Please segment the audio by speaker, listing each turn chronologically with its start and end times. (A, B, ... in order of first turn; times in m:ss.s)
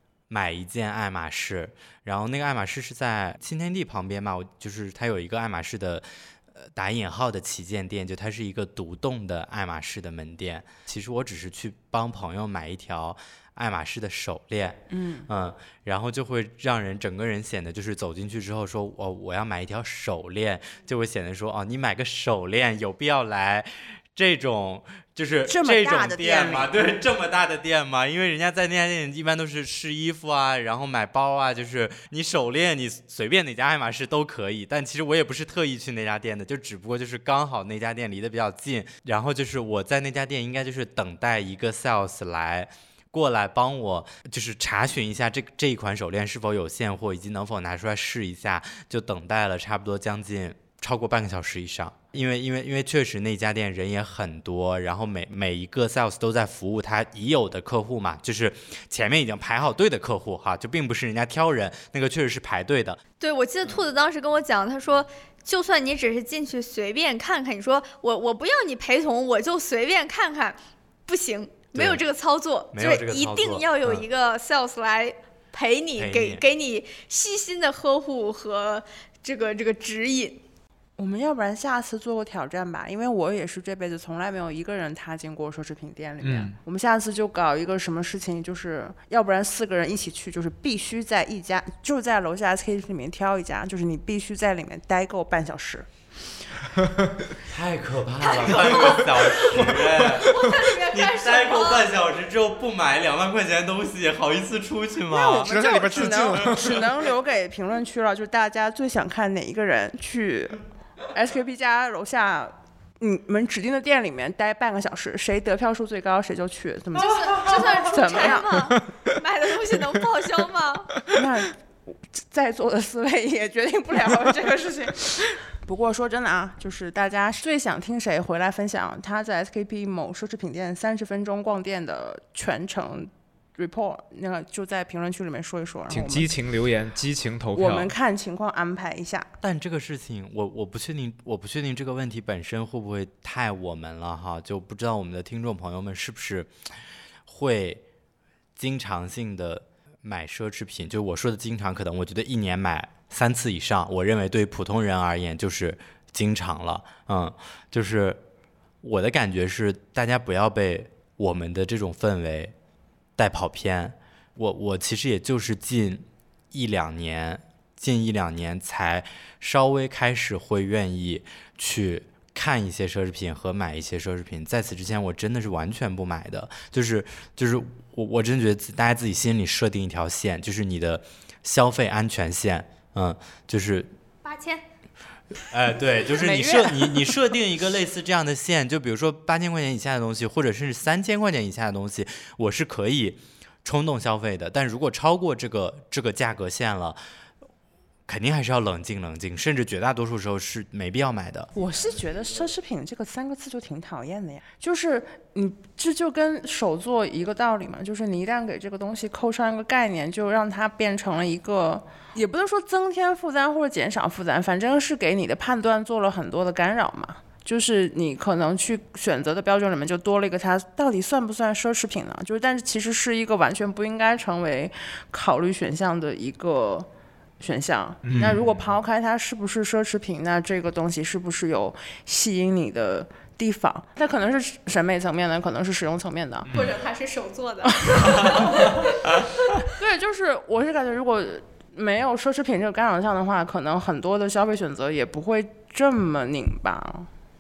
0:00.3-1:03.0 A
0:14.9-0:15.3 B
0:25.5-0:26.8 B
1:03.2-1:20.4 C
1:11.7-1:12.0 A
1:12.7-1:14.0 A
1:16.0-1:16.4 A
1:21.0-1:35.9 B
1:26.2-1:26.6 D
1:36.8-1:37.1 D
1:37.5-1:45.5 A
1:38.3-1:39.3 C
1:39.4-1:40.2 D
1:40.0-1:41.9 C
1:45.1-1:50.6 B
1:45.4-1:46.9 D
1:51.1-1:58.6 B
1:56.9-2:00.9 C
2:01.1-2:16.3 B
2:15.9-2:17.9 D
2:17.5-2:19.3 B
2:19.4-2:26.5 A
2:27.2-2:27.8 A
2:28.6-2:38.2 A
2:38.8-2:42.5 A
2:43.2-3:03.9 A
3:04.2-3:04.6 C
3:05.5-3:17.0 A
3:06.2-3:07.0 B
3:18.1-3:21.5 A
3:21.5-3:46.9 B
3:47.4-3:56.5 B
3:48.0-3:48.7 D
3:56.4-3:56.7 D
3:56.5-3:58.9 C
3:57.9-3:58.8 B
3:59.8-4:07.1 B